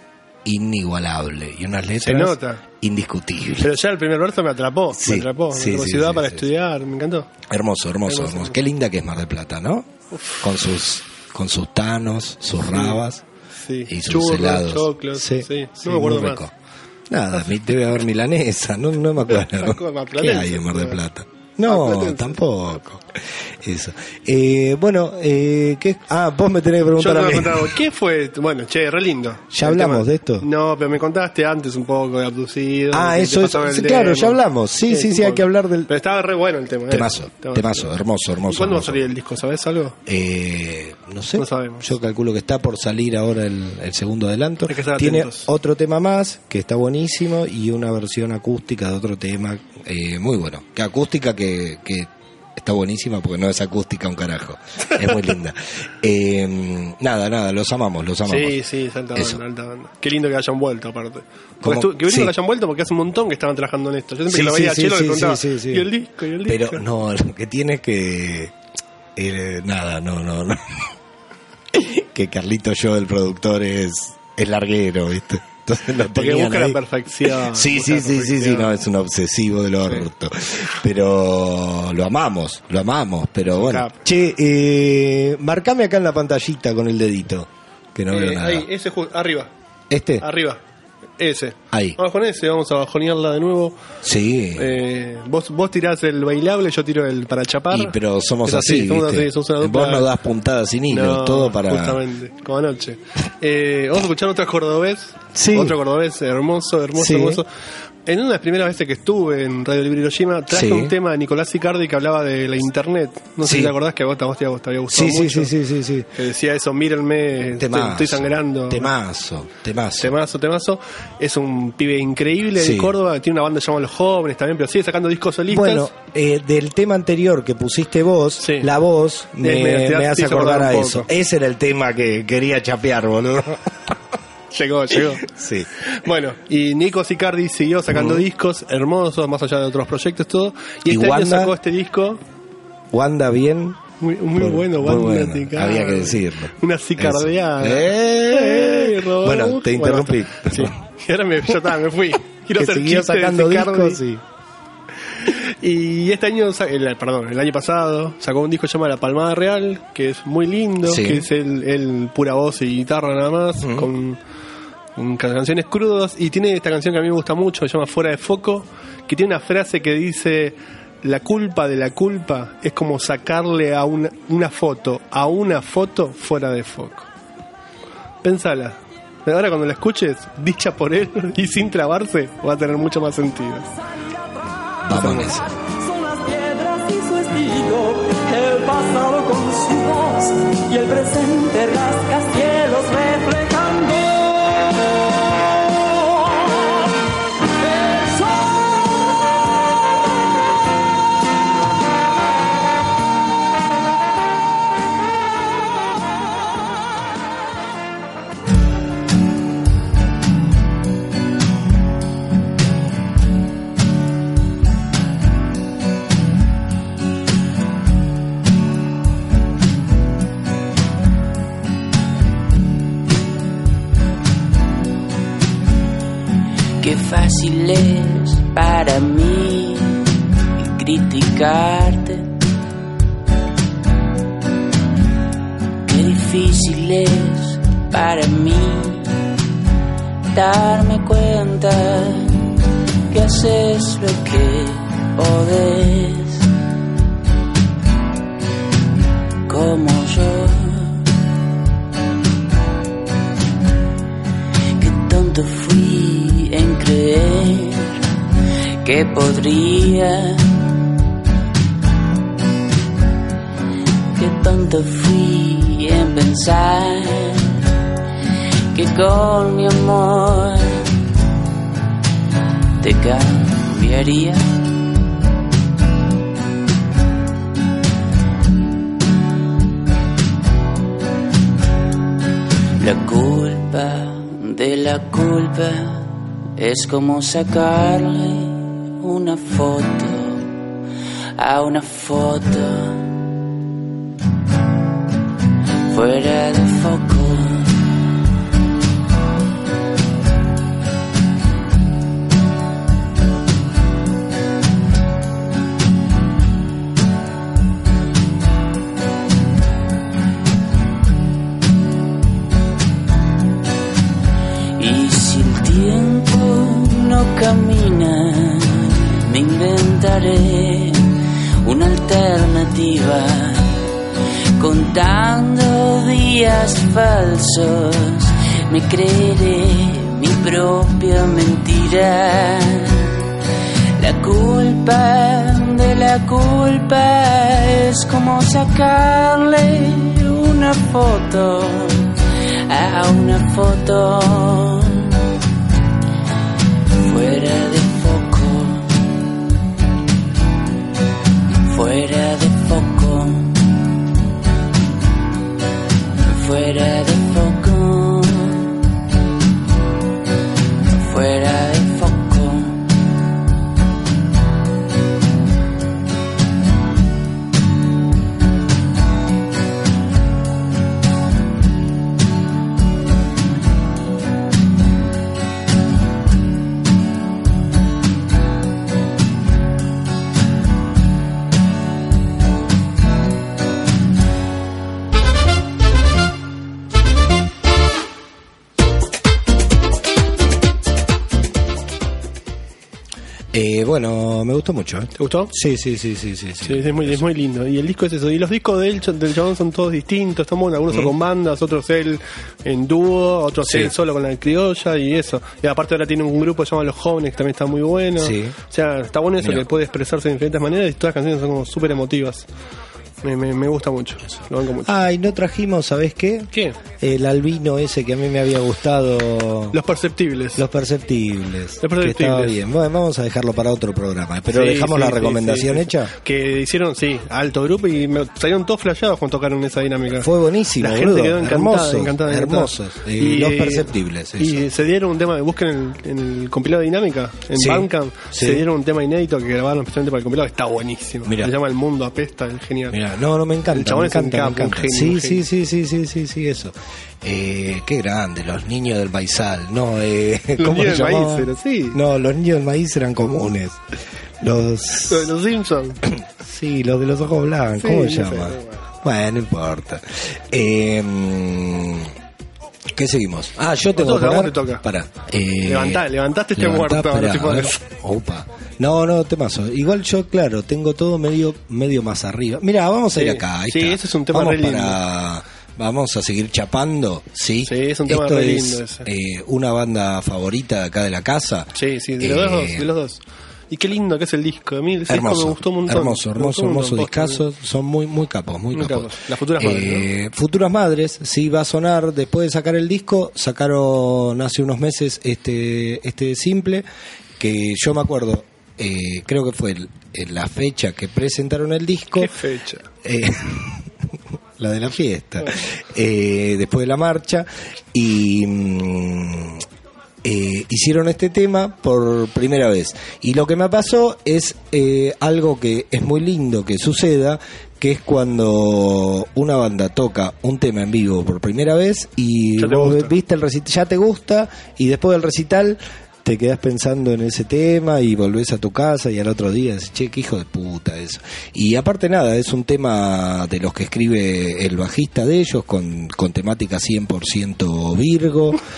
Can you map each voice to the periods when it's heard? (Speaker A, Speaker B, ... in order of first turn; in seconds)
Speaker A: 0.4-3.7, 4.9-6.5, 7.5-13.2, 13.9-16.5, 17.1-27.8, 29.5-30.4, 32.9-35.9, 36.9-39.1, 40.0-58.6, 59.1-59.4, 61.6-62.3, 64.3-65.9, 66.4-68.5, 69.2-70.9, 71.7-88.7, 89.9-90.2, 91.7-92.0, 94.0-94.7, 97.7-102.0, 105.3-105.8, 107.0-107.4, 110.5-110.9, 113.4-113.7, 114.9-116.1, 117.5-120.1, 122.6-123.0, 125.5-133.9, 135.2-135.7, 137.9-138.2, 140.8-141.6, 142.9-143.8, 144.3-150.7, 152.5-154.2, 160.8-161.3, 163.6-163.9, 184.8-185.5, 393.5-397.2, 403.6-403.9, 408.2-408.6, 409.4-409.6, 414.8-419.8, 420.6-426.1, 430.2-434.6, 437.5-438.6, 441.2-441.5, 442.9-455.3, 456.1-462.1, 462.9-482.9, 485.1-496.9, 497.4-502.3, 503.0-509.6, 510.2-538.6
Speaker B: 2.0-2.6, 3.6-7.3, 8.1-8.6, 10.1-10.4, 12.6-13.0, 13.6-16.4, 19.3-21.0, 21.7-22.4, 27.0-37.9, 38.5-40.0, 41.4-41.9, 44.6-45.5, 58.2-66.8, 76.1-78.7, 83.5-84.0, 88.1-89.5, 90.2-90.6, 91.2-93.8, 94.5-97.9, 98.5-100.1, 100.9-107.5, 108.0-115.5, 116.1-118.9, 120.0-125.9, 128.4-128.7, 129.4-131.1, 134.5-135.3, 135.8-142.2, 144.0-154.0, 155.2-164.2, 164.9-177.1, 178.2-183.7, 184.9-185.4, 395.2-395.5, 396.6-412.5, 413.2-414.9, 416.5-416.8, 419.7-420.6, 421.8-422.6, 424.5-443.0, 443.7-445.4, 450.6-452.0, 455.0-456.0, 457.7-458.8, 463.9-464.8, 465.6-467.7, 473.1-475.0, 477.6-479.1, 481.7-487.4, 488.7-490.1, 502.1-502.9, 522.6-523.1
Speaker C: 185.6-194.7, 195.7-196.9, 197.6-199.0
Speaker D: 226.8-232.3, 235.8-239.1, 240.3-242.5, 243.1-246.4, 249.5-251.1, 254.8-258.0, 258.8-260.6, 264.1-267.6, 268.7-270.9, 272.8-274.6, 282.8-290.5, 291.4-293.2, 295.9-297.8, 314.8-323.8, 324.6-333.3, 334.0-342.2, 342.7-345.3, 346.9-349.1, 351.6-353.8, 356.2-358.7, 360.9-362.9